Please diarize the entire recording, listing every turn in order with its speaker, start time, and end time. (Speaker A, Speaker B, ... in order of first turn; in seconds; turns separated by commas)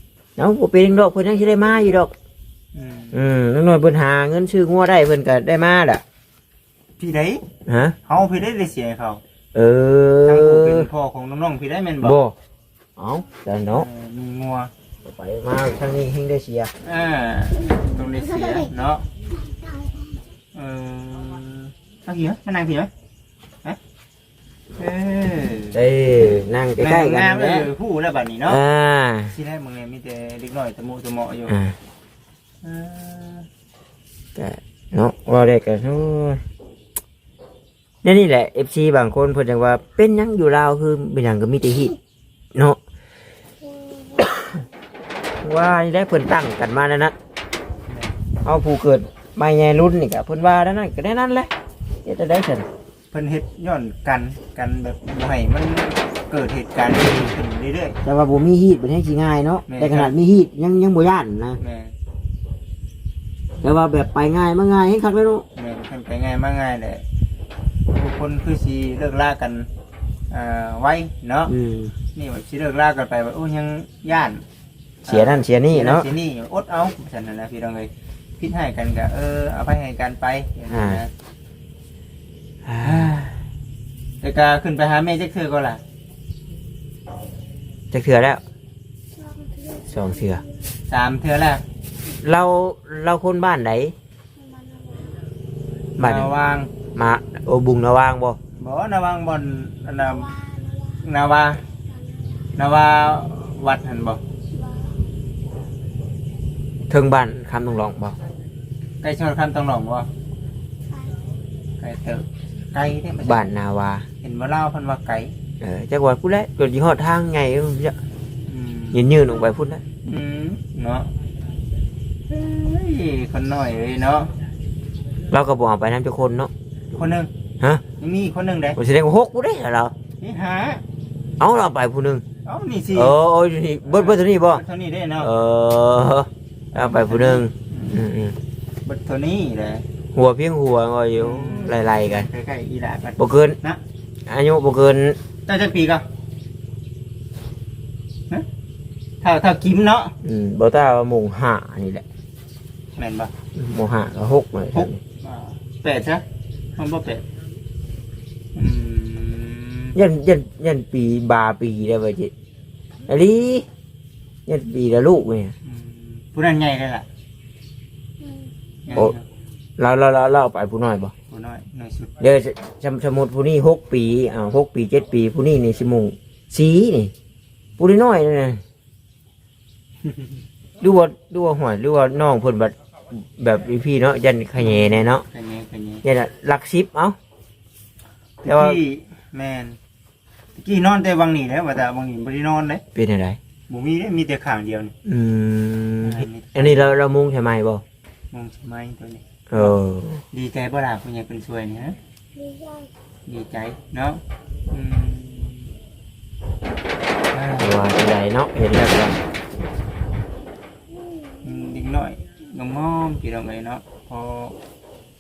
Speaker A: 0.4-2.1, Speaker B: 2.7-3.2, Speaker A: 3.1-6.0, Speaker B: 7.0-7.4, Speaker A: 7.7-8.0, Speaker B: 8.1-9.2, Speaker A: 9.5-10.9, Speaker B: 10.2-12.2, Speaker A: 12.0-12.3, Speaker A: 13.0-13.9, Speaker B: 13.7-14.7, Speaker A: 15.0-16.7, Speaker B: 16.8-19.0, Speaker B: 20.5-22.9, Speaker B: 24.8-25.8, Speaker A: 25.7-27.7, Speaker B: 26.8-28.6, Speaker A: 28.5-29.3, Speaker B: 29.3-31.6, Speaker A: 31.5-31.8, Speaker B: 32.6-33.5, Speaker A: 34.4-36.4, Speaker A: 38.0-42.0, Speaker A: 42.5-42.8, Speaker A: 44.2-44.6, Speaker A: 45.4-47.1, Speaker B: 47.9-48.1, Speaker A: 48.4-51.5, Speaker A: 52.0-52.7, Speaker B: 53.1-58.0, Speaker A: 58.0-61.6, Speaker B: 59.7-60.1, Speaker B: 61.6-61.9, Speaker A: 63.6-65.5, Speaker B: 65.6-67.0, Speaker B: 67.9-69.7, Speaker B: 70.3-71.5, Speaker A: 71.5-71.9, Speaker B: 72.1-74.4, Speaker A: 75.1-76.1, Speaker B: 75.1-81.1, Speaker A: 80.7-81.0, Speaker A: 82.7-83.1, Speaker B: 82.8-83.4, Speaker B: 84.2-85.8, Speaker A: 87.9-88.4, Speaker A: 89.8-90.4, Speaker B: 90.9-91.6, Speaker A: 92.2-94.0, Speaker A: 96.0-96.3, Speaker B: 96.0-96.7, Speaker A: 96.9-98.4, Speaker B: 98.6-100.4, Speaker B: 101.0-101.6, Speaker B: 102.6-104.2, Speaker A: 106.9-108.2, Speaker B: 109.0-110.1, Speaker B: 111.8-113.5, Speaker A: 113.2-114.1, Speaker B: 114.2-115.3, Speaker A: 115.6-118.0, Speaker B: 118.5-119.0, Speaker A: 118.9-119.8, Speaker B: 120.0-121.1, Speaker B: 122.3-124.3, Speaker A: 125.3-126.5, Speaker B: 126.9-127.3, Speaker B: 128.0-128.8, Speaker A: 128.8-129.9, Speaker B: 130.2-130.8, Speaker A: 131.4-132.2, Speaker B: 132.4-133.2, Speaker A: 132.9-134.6, Speaker B: 133.9-135.3, Speaker A: 135.2-138.4, Speaker B: 136.7-138.0, Speaker B: 138.8-139.8, Speaker A: 140.1-142.3, Speaker B: 141.2-143.8, Speaker A: 143.2-143.6, Speaker A: 144.3-145.2, Speaker B: 145.5-146.1, Speaker B: 149.2-150.1, Speaker A: 150.2-152.1, Speaker B: 153.0-153.3, Speaker A: 153.6-155.0, Speaker B: 154.7-156.2, Speaker B: 156.8-157.2, Speaker B: 158.6-160.0, Speaker A: 159.9-162.3, Speaker A: 163.1-163.7, Speaker A: 164.5-165.6, Speaker B: 165.7-167.1, Speaker B: 168.8-169.2, Speaker A: 169.8-171.1, Speaker B: 171.3-172.2, Speaker A: 172.2-177.1, Speaker A: 177.8-178.6, Speaker B: 180.0-180.3, Speaker A: 180.8-185.2, Speaker B: 184.6-186.1, Speaker A: 186.0-187.2, Speaker B: 188.4-189.8, Speaker A: 188.5-188.8, Speaker B: 190.6-192.8, Speaker A: 192.9-193.4, Speaker B: 193.7-194.9, Speaker A: 195.1-197.8, Speaker B: 196.0-196.9, Speaker B: 198.3-199.8, Speaker A: 199.5-200.2, Speaker B: 200.3-202.0, Speaker B: 203.3-205.7, Speaker B: 207.3-207.7, Speaker A: 207.6-209.2, Speaker B: 211.4-214.6